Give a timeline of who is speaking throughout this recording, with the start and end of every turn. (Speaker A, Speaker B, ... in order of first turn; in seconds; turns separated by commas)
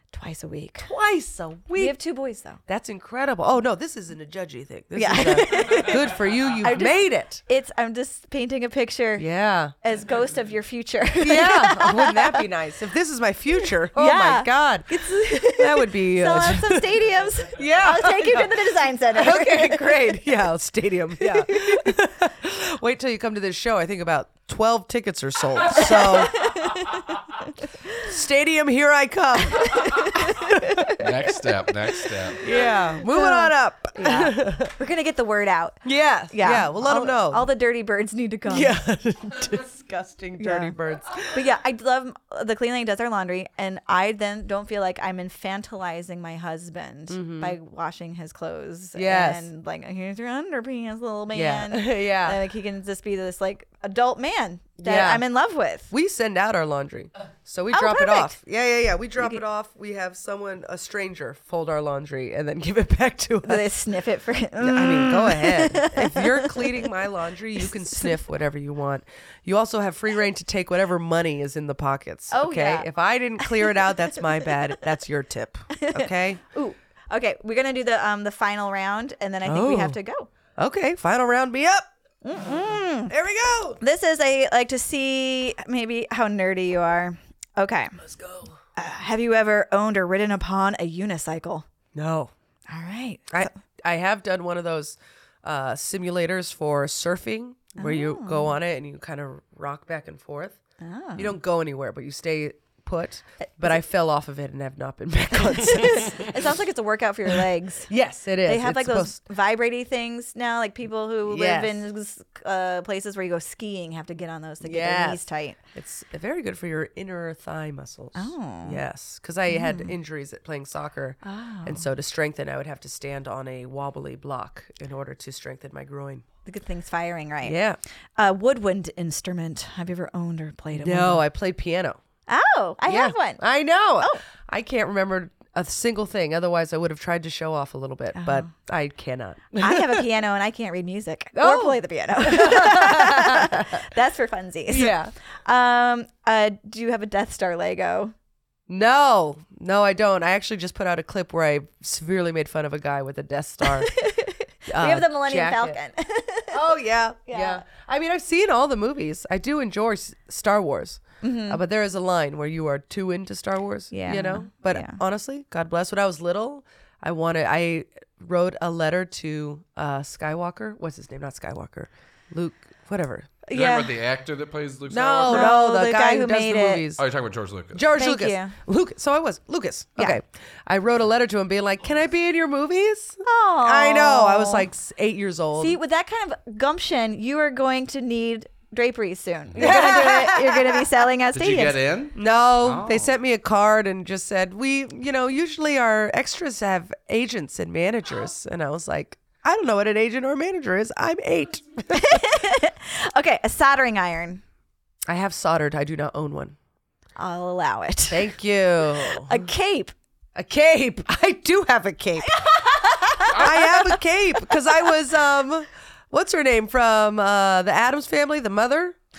Speaker A: 0.1-0.9, Speaker B: 0.8-2.0, Speaker A: 1.7-2.6, Speaker B: 2.6-7.4, Speaker A: 5.0-6.1, Speaker A: 6.6-9.2, Speaker B: 9.2-9.7, Speaker A: 9.8-12.4, Speaker B: 11.2-17.0, Speaker A: 13.9-20.2, Speaker B: 17.5-26.4, Speaker A: 21.2-21.9, Speaker A: 25.8-28.0, Speaker B: 28.0-31.3, Speaker A: 29.6-30.9, Speaker C: 31.0-32.5, Speaker B: 32.4-34.7, Speaker A: 32.5-38.8, Speaker B: 35.8-37.5, Speaker B: 38.5-41.4, Speaker A: 40.4-40.7, Speaker A: 41.3-55.9, Speaker B: 47.1-47.5, Speaker B: 48.9-49.5, Speaker B: 51.3-52.4, Speaker B: 54.8-55.2, Speaker B: 55.9-63.6, Speaker A: 57.7-58.3, Speaker A: 63.4-66.9, Speaker B: 64.6-76.4, Speaker A: 67.6-68.2, Speaker A: 72.3-72.9, Speaker A: 73.4-74.5, Speaker A: 75.7-80.3, Speaker B: 79.4-80.0, Speaker B: 80.5-81.9, Speaker A: 82.2-83.1, Speaker B: 83.1-83.8, Speaker A: 83.8-88.0, Speaker B: 88.0-88.5, Speaker A: 88.8-91.7, Speaker B: 91.9-92.3, Speaker A: 92.7-93.6, Speaker B: 93.3-100.6, Speaker A: 97.8-98.5, Speaker A: 100.8-101.4, Speaker B: 101.2-106.5, Speaker A: 105.5-107.9, Speaker B: 107.9-109.2, Speaker A: 108.4-115.6, Speaker B: 111.2-111.8, Speaker B: 114.6-115.2, Speaker B: 115.7-126.2, Speaker A: 118.1-118.8, Speaker A: 119.5-119.9, Speaker A: 121.2-121.8, Speaker A: 126.4-127.6, Speaker B: 127.4-127.8, Speaker A: 128.2-131.2, Speaker B: 130.7-132.0, Speaker A: 132.3-133.4, Speaker B: 132.9-140.0, Speaker A: 138.2-138.5, Speaker A: 139.6-148.1, Speaker B: 141.3-143.8, Speaker B: 144.7-145.1, Speaker B: 148.7-153.9, Speaker A: 153.6-156.7, Speaker B: 154.7-155.8, Speaker B: 156.5-173.3, Speaker A: 157.3-157.6, Speaker A: 161.2-161.6, Speaker A: 163.9-165.0, Speaker A: 173.4-173.9, Speaker C: 173.5-175.6, Speaker B: 174.9-177.0, Speaker A: 175.3-176.8, Speaker C: 177.0-177.8, Speaker B: 177.7-185.8, Speaker A: 177.9-178.5, Speaker A: 183.2-184.7, Speaker A: 185.6-191.8, Speaker C: 189.5-189.8, Speaker B: 189.6-190.9, Speaker C: 191.3-193.1, Speaker B: 192.1-202.3, Speaker A: 201.9-204.4, Speaker B: 205.1-206.6, Speaker A: 207.2-208.3, Speaker B: 208.1-209.4, Speaker A: 208.9-209.9, Speaker B: 210.3-212.4, Speaker A: 212.2-214.9, Speaker C: 213.3-213.6, Speaker B: 213.4-218.9